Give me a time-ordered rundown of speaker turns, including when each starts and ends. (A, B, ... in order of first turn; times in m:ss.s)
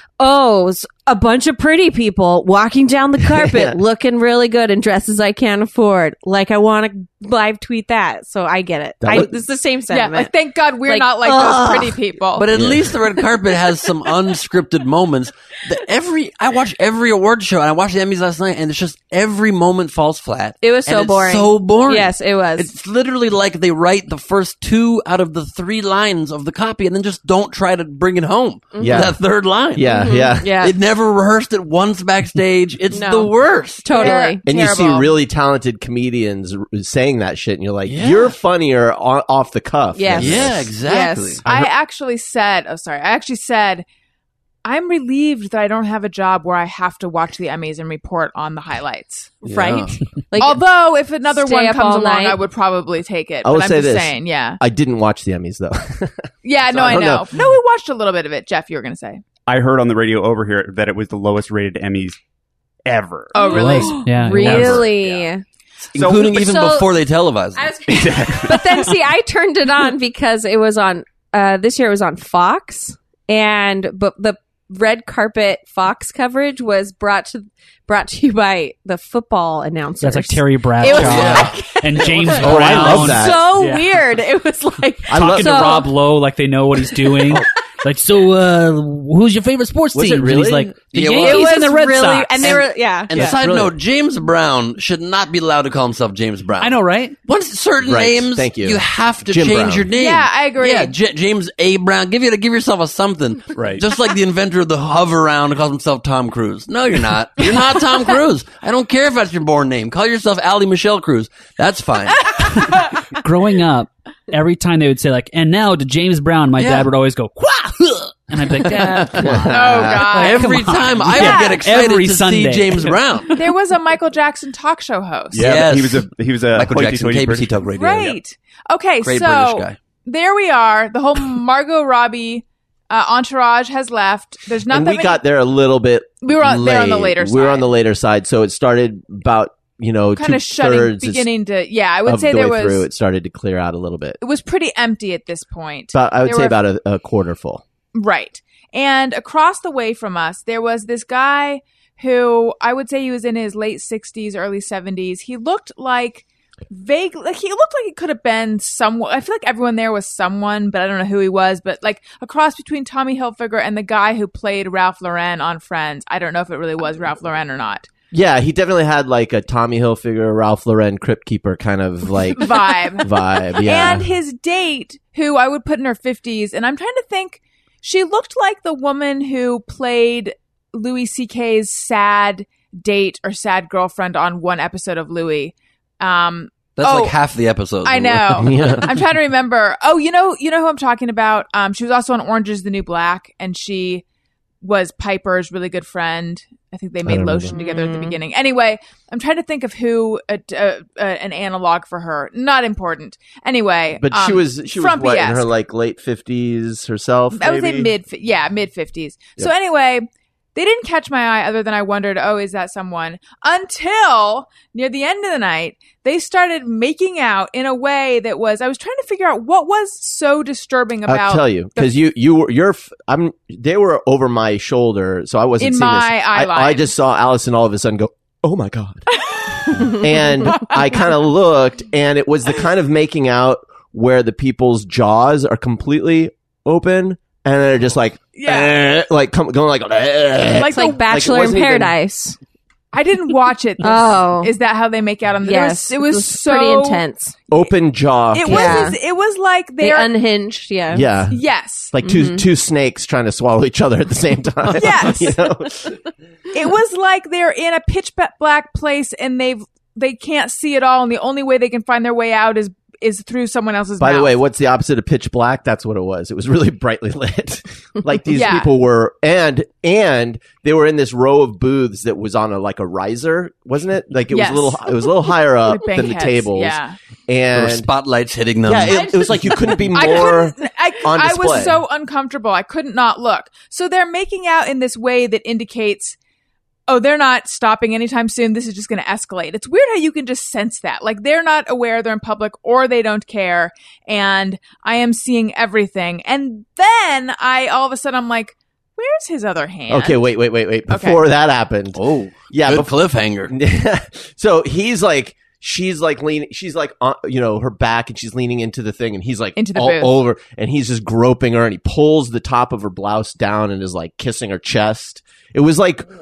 0:00.2-0:10.3 A
0:03.2-0:03.8 B
0:09.0-0:09.4 B
0:09.9-0:12.4 C
0:10.8-0:12.0 A
0:12.4-0:34.1 D
0:12.5-0:12.9 B
0:20.6-0:22.7 A
0:28.7-0:29.2 A
0:28.8-0:29.2 B
0:29.7-0:30.5 B
0:29.8-0:30.7 A
0:32.9-0:33.3 A
0:33.8-0:35.1 A
0:34.0-0:40.7 B
0:34.0-0:34.4 C
0:37.8-0:38.3 D
0:39.9-0:41.4 A
0:40.2-0:41.4 D
0:41.4-0:43.8 C
0:44.6-0:49.4 C
0:49.4-0:50.6 A
0:49.4-0:49.8 B
0:49.6-0:49.9 D
0:50.4-0:54.6 C
0:51.3-0:52.4 A
0:53.4-0:57.4 B
0:56.4-0:59.2 C
0:59.5-1:02.2 E
1:02.8-1:05.3 E
1:03.3-1:04.1 C
1:03.4-1:05.4 A
1:03.5-1:04.9 F
1:05.9-1:06.4 E
1:05.9-1:07.7 D
1:06.1-1:06.9 A
1:07.5-1:25.9 A
1:07.9-1:09.0 E
1:20.0-1:23.9 F
1:20.8-1:21.6 D
1:22.2-1:23.5 B
1:22.4-1:23.0 D
1:25.1-1:25.9 B
1:25.1-1:33.4 F
1:26.8-1:27.4 A
1:29.9-1:30.7 B
1:30.9-1:31.6 D
1:31.2-1:33.3 A
1:32.4-1:52.5 D
1:33.3-1:33.7 B
1:36.6-1:37.2 F
1:37.8-1:39.9 B
1:40.0-1:40.9 C
1:43.5-1:43.9 E
1:52.6-2:03.0 F
1:56.6-1:56.9 D
1:58.6-2:03.4 D
1:59.2-2:00.0 B
1:59.5-2:00.5 C
2:01.1-2:01.6 C
2:03.3-2:05.5 C
2:05.3-2:08.2 E
2:05.3-2:08.1 D
2:07.7-2:15.2 C
2:09.0-2:09.8 D
2:14.7-2:21.3 B
2:16.2-2:17.7 C
2:20.2-2:22.9 C
2:22.0-2:24.2 B
2:24.2-2:26.6 C
2:25.9-2:27.6 B
2:27.9-2:47.9 C
2:48.1-2:54.1 B
2:52.3-3:07.2 C
3:06.8-3:08.8 D
3:07.8-3:14.0 C
3:08.4-3:09.0 B
3:14.6-3:25.5 C
3:17.0-3:17.5 B
3:17.5-3:18.2 A
3:24.0-3:27.9 B
3:27.3-3:42.0 C
3:41.1-3:49.1 B
3:45.6-3:46.9 C
3:49.1-3:51.1 C
3:49.6-4:01.9 B
3:58.4-3:58.7 C
4:00.5-4:02.4 A
4:00.6-4:01.0 C
4:02.9-4:07.0 C
4:03.8-4:04.5 A
4:05.4-4:07.3 A
4:07.5-4:08.9 B
4:08.3-4:10.1 C
4:08.4-4:09.0 A
4:09.8-4:11.1 A
4:10.9-4:16.0 B
4:11.3-4:11.9 C
4:12.0-4:12.4 A
4:14.8-4:15.4 C
4:16.5-4:24.4 C
4:24.0-4:37.9 B
4:28.3-4:28.7 C
4:34.3-4:37.0 C
4:37.5-4:39.5 D
4:38.6-4:41.8 B
4:39.9-4:46.2 C
4:46.9-5:00.2 C
4:59.9-5:02.9 B
5:00.9-5:01.2 C
5:01.9-5:03.5 D
5:03.4-5:16.0 B
5:09.6-5:10.2 C